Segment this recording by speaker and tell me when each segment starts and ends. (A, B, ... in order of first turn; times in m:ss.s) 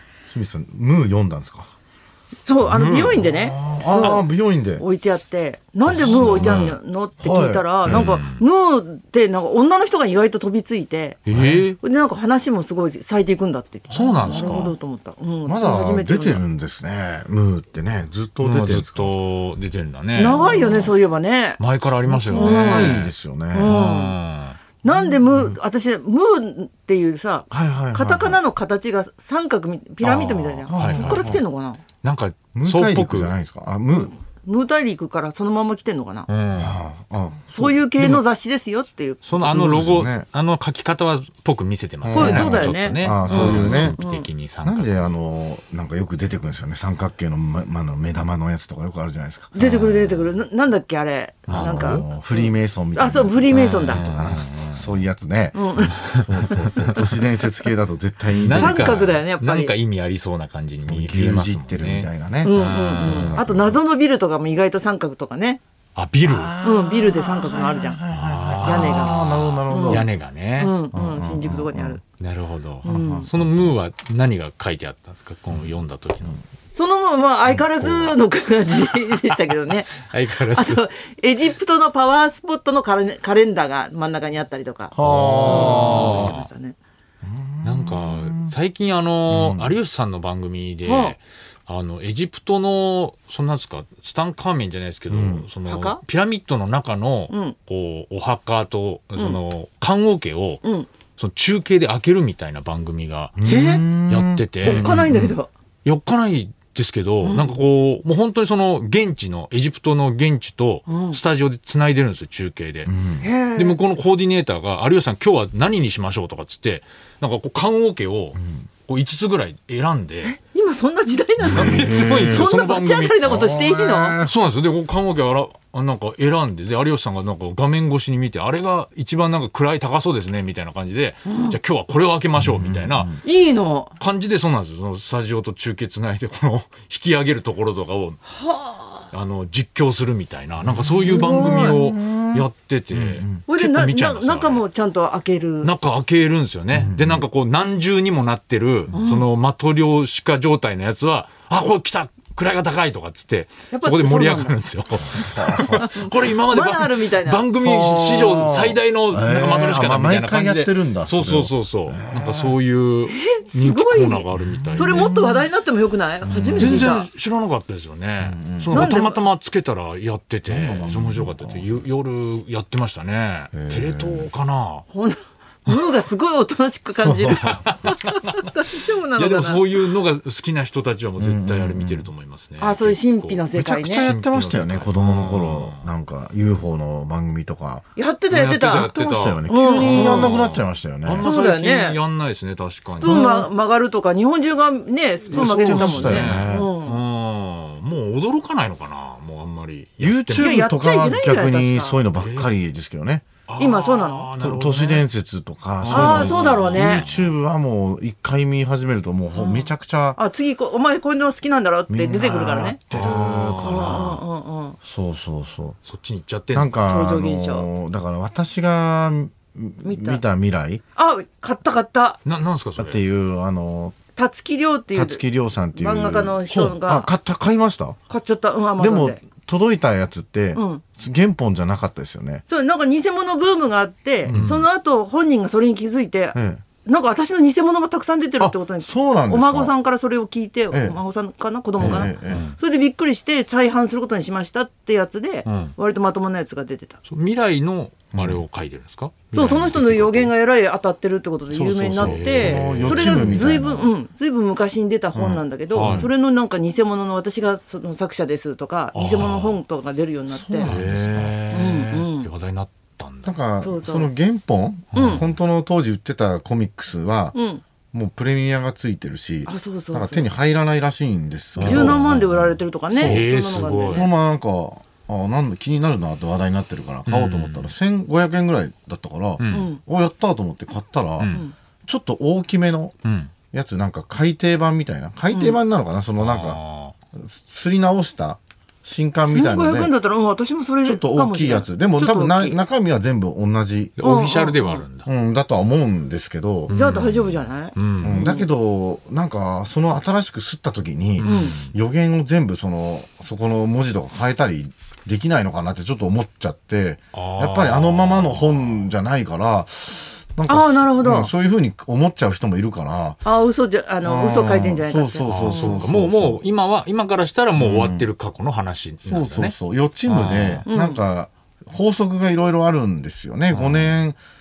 0:00.3-0:01.7 A
0:02.4-0:11.2 B
0:02.6-0:03.2 C
0:03.0-0:04.8 A
0:05.8-0:08.2 A
0:05.9-0:06.8 C
0:07.8-0:08.4 C
0:11.2-0:11.8 C
0:11.3-0:11.6 A
0:11.8-0:16.4 B
0:13.9-0:14.7 C
0:14.2-0:14.7 A
0:15.4-0:19.2 A
0:18.4-0:20.9 C
0:20.1-0:21.6 B
0:20.2-0:20.9 A
0:21.6-0:23.1 C
0:22.1-0:23.8 A
0:22.3-0:23.0 B
0:23.5-0:24.2 B
0:23.6-0:24.6 C
0:24.8-0:31.8 B
0:24.9-0:25.6 A
0:27.5-0:28.4 A
0:30.0-0:31.4 C
0:30.6-0:31.4 A
0:32.0-0:33.3 C
0:32.5-0:34.1 A
0:33.9-0:36.3 B
0:36.3-0:36.8 C
0:36.5-0:38.2 A
0:37.5-0:39.8 B
0:39.2-0:45.2 C
0:39.4-0:40.3 A
0:42.0-0:44.0 A
0:42.1-0:44.3 B
0:44.6-0:49.5 A
0:49.5-0:54.0 B
0:49.6-0:50.3 C
0:51.5-0:52.1 C
0:51.5-0:59.0 A
0:53.5-0:54.9 C
0:55.5-0:56.0 B
0:55.8-0:57.1 C
0:58.3-1:03.4 C
0:58.5-0:59.7 B
1:00.8-1:03.8 A
1:02.4-1:05.6 B
1:05.9-1:06.5 C
1:06.2-1:10.1 A
1:06.6-1:08.0 B
1:08.1-1:10.7 C
1:08.6-1:12.0 B
1:10.9-1:12.0 A
1:12.1-1:16.4 C
1:12.8-1:13.3 B
1:12.8-1:13.7 A
1:16.7-1:24.9 B
1:17.7-1:18.2 C
1:18.7-1:20.8 C
1:24.9-1:26.3 A
1:25.0-1:26.5 C
1:25.4-1:26.8 B
1:27.2-1:28.5 A
1:27.6-1:40.6 C
1:29.3-1:29.8 A
1:30.8-1:31.2 B
1:35.1-1:35.4 A
1:35.6-1:36.0 B
1:37.3-1:37.6 B
1:40.6-1:40.9 B
1:41.2-1:43.4 C
1:43.4-1:45.3 A
1:43.4-1:43.8 B
1:44.1-1:45.3 C
1:44.6-1:45.5 B
1:45.8-1:52.9 C
1:47.2-1:47.6 B
1:50.9-1:51.2 B
1:52.8-1:53.3 A
1:53.2-1:53.8 B
1:53.5-2:00.3 C
1:58.4-1:58.6 A
2:00.2-2:04.2 B
2:01.4-2:03.2 C
2:01.4-2:02.5 A
2:03.2-2:04.4 A
2:04.2-2:13.2 C
2:11.2-2:11.6 B
2:12.4-2:13.2 A
2:13.2-2:13.9 B
2:14.0-2:18.2 C
2:18.3-2:19.1 B
2:19.1-2:24.6 C
2:20.6-2:23.4 A
2:21.1-2:21.8 B
2:23.4-2:25.7 B
2:25.6-2:45.4 C
2:26.7-2:27.2 A
2:28.9-2:29.3 B
2:33.7-2:34.6 B
2:35.1-2:35.8 A
2:35.6-2:37.5 B
2:37.6-2:42.6 A
2:43.1-2:47.1 B
2:44.6-2:45.0 A
2:46.2-2:46.9 A
2:46.6-2:54.8 C
2:48.2-2:49.0 A
2:48.7-2:49.2 B
2:50.5-2:51.8 A
2:53.5-2:54.3 A
2:54.9-2:59.7 B
2:57.2-3:05.9 C
3:01.2-3:02.1 A
3:02.6-3:04.1 B
3:03.5-3:07.9 A
3:08.0-3:10.4 B
3:08.3-3:13.2 C
3:08.6-3:11.3 A
3:11.2-3:12.0 B
3:13.0-3:17.0 B
3:13.0-3:13.5 A
3:15.3-3:20.6 C
3:15.3-3:16.7 A
3:20.0-3:23.2 A
3:20.4-3:22.0 B
3:22.2-3:22.5 C
3:23.5-3:25.0 C
3:23.6-3:24.3 B
3:24.4-3:30.2 A
3:25.8-3:27.4 C
3:25.9-3:27.0 B
3:29.3-3:32.8 B
3:31.9-3:34.2 A
3:32.9-3:34.2 C
3:33.6-3:34.8 B
3:34.8-3:35.8 A
3:35.8-3:36.7 C
3:36.5-3:40.8 A
3:36.8-3:37.7 B
3:39.8-3:40.2 B
3:40.9-3:42.2 B
3:42.2-3:43.0 C
3:42.8-3:44.0 A
3:44.1-3:45.2 B
3:44.9-3:48.0 A
3:45.7-3:47.1 B
3:48.1-3:49.2 B
3:48.8-3:52.4 A
3:50.5-3:50.8 B
3:52.5-4:07.0 B
3:54.2-3:54.5 A
3:54.3-3:54.6 C
3:56.3-3:56.6 A
3:58.4-3:59.7 A
4:00.7-4:01.0 A
4:01.8-4:02.4 A
4:01.8-4:02.6 C
4:05.4-4:05.7 C
4:07.0-4:10.3 C
4:08.1-4:08.4 A
4:09.3-4:20.7 B
4:11.5-4:13.9 A
4:12.0-4:13.6 C
4:15.1-4:16.1 A
4:15.7-4:16.1 C
4:18.9-4:19.6 C
4:20.3-4:21.4 A
4:20.6-4:23.4 C
4:21.5-4:22.3 B
4:23.2-4:27.3 A
4:23.6-4:24.1 B
4:24.9-4:25.4 C
4:24.9-4:25.2 B
4:27.3-4:27.6 B
4:27.9-4:41.3 A
4:29.4-4:30.3 B
4:31.5-4:32.0 C
4:31.6-4:34.1 B
4:33.0-4:34.1 C
4:37.0-4:37.7 C
4:39.4-4:39.7 C
4:39.5-4:39.8 B
4:41.2-4:41.4 C
4:41.8-4:42.9 A
4:43.0-4:43.3 C
4:43.5-4:46.6 A
4:45.3-4:45.6 B
4:46.2-4:46.9 C
4:47.1-4:49.9 A
4:49.2-4:52.6 B
4:50.8-4:54.2 A
4:54.0-4:55.1 C
4:54.0-4:54.8 B
4:55.0-4:56.8 A
4:56.7-4:58.2 C
4:56.7-4:58.5 B
4:58.0-5:13.2 A
5:01.2-5:01.7 C
5:01.2-5:01.5 B
5:07.1-5:08.9 C
5:10.5-5:11.3 B
5:13.2-5:15.8 B
5:14.0-5:16.4 A
5:15.2-5:19.5 C
5:17.6-5:18.1 A
5:19.1-5:24.2 A
5:20.1-5:20.6 C
5:20.7-5:21.0 B
5:23.5-5:24.0 C